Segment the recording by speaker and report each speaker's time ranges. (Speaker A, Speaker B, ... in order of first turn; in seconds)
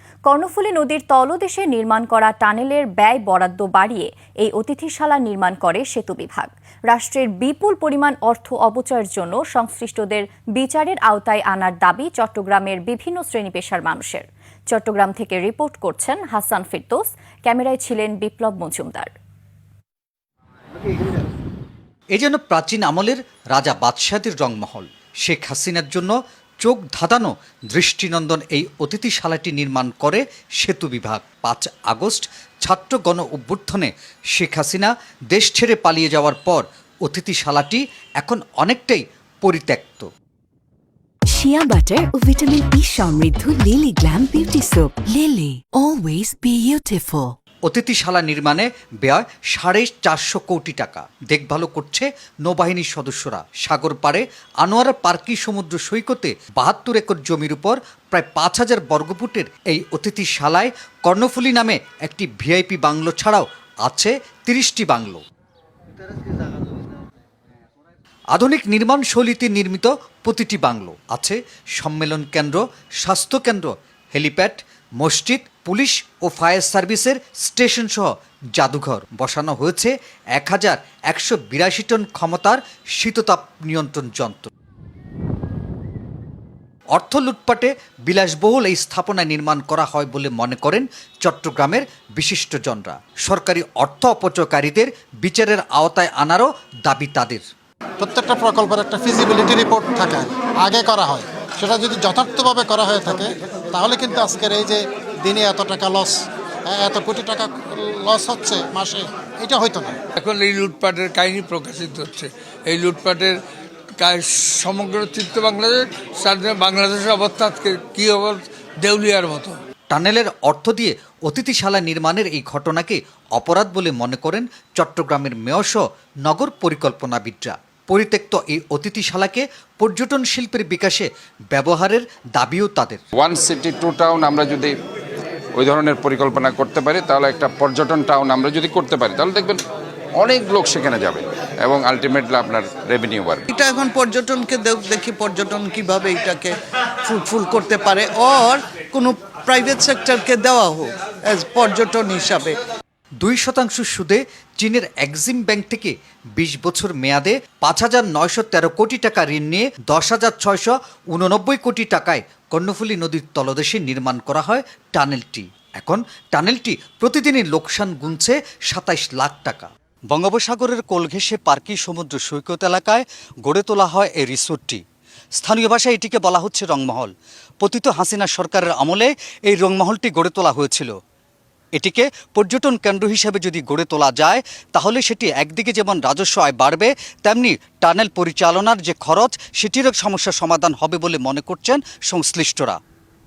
Speaker A: 0.3-19.1
Speaker B: 22.1-40.1, 47.7-65.2, 68.3-84.5, 86.9-97.4, 119.9-133.0, 153.2-174.8, 175.4-180.9, 181.7-192.8
Speaker C: 41.3-47.4
Speaker D: 98.0-106.1, 106.7-109.9
Speaker E: 110.2-113.4, 114.0-119.6
Speaker F: 133.2-134.7, 135.6-139.6, 140.2-143.5
Speaker G: 143.5-146.5, 147.1-152.6